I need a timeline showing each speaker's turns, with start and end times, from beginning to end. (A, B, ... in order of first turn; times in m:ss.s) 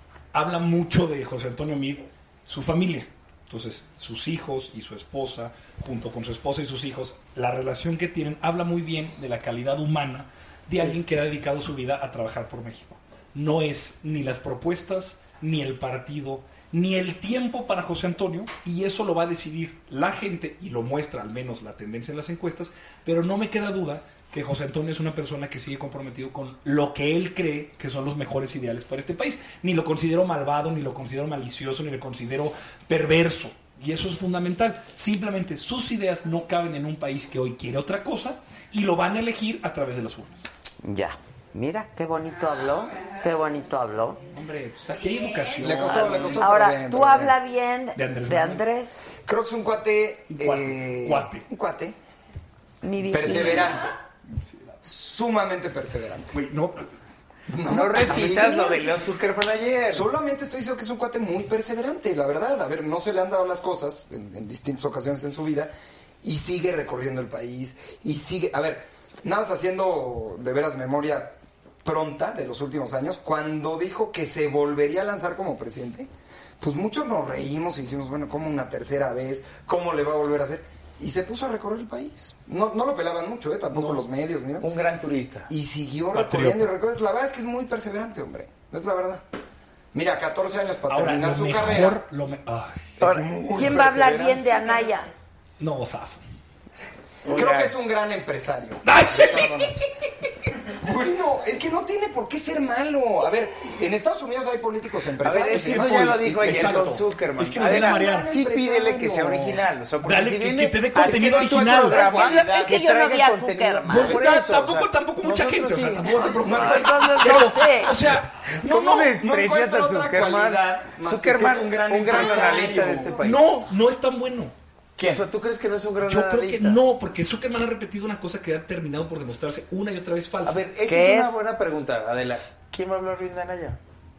0:00.3-0:40.4 A
0:40.8-0:44.2 B
0:44.3-0:46.5 A
0:45.6-0:47.4 C
0:46.2-0:49.0 B
0:47.9-0:48.6 A
0:49.3-0:51.9 C
0:50.3-0:51.5 A
0:52.8-0:53.7 B
0:53.1-0:53.9 C
0:54.8-0:56.4 C
0:56.3-0:56.8 A
0:57.5-0:58.8 C
0:57.6-1:00.1 D
0:59.9-1:24.7 C
1:23.7-1:24.0 A
1:24.6-1:25.5 D
1:25.5-1:29.2 C
1:26.1-1:26.7 A
1:29.9-1:32.0 C
1:30.9-1:33.0 A
1:33.0-1:34.6 C
1:33.0-1:35.1 B
1:35.6-1:36.2 A
1:37.2-1:37.7 D
1:37.2-1:39.8 C
1:38.8-1:39.7 A
1:40.8-1:46.9 C
1:45.2-1:56.3 D
1:45.5-1:48.3 A
1:47.6-1:49.6 C
1:50.0-1:52.0 A
1:50.9-1:52.8 C
1:51.8-1:54.2 B
1:53.9-1:59.1 A
1:56.3-1:57.9 B
1:56.4-1:57.4 C
1:58.6-2:03.4 D
1:58.9-2:03.2 C
2:03.2-2:04.5 A
2:05.0-2:06.8 D
2:06.0-2:10.6 A
2:10.4-2:13.8 D
2:10.8-2:11.4 B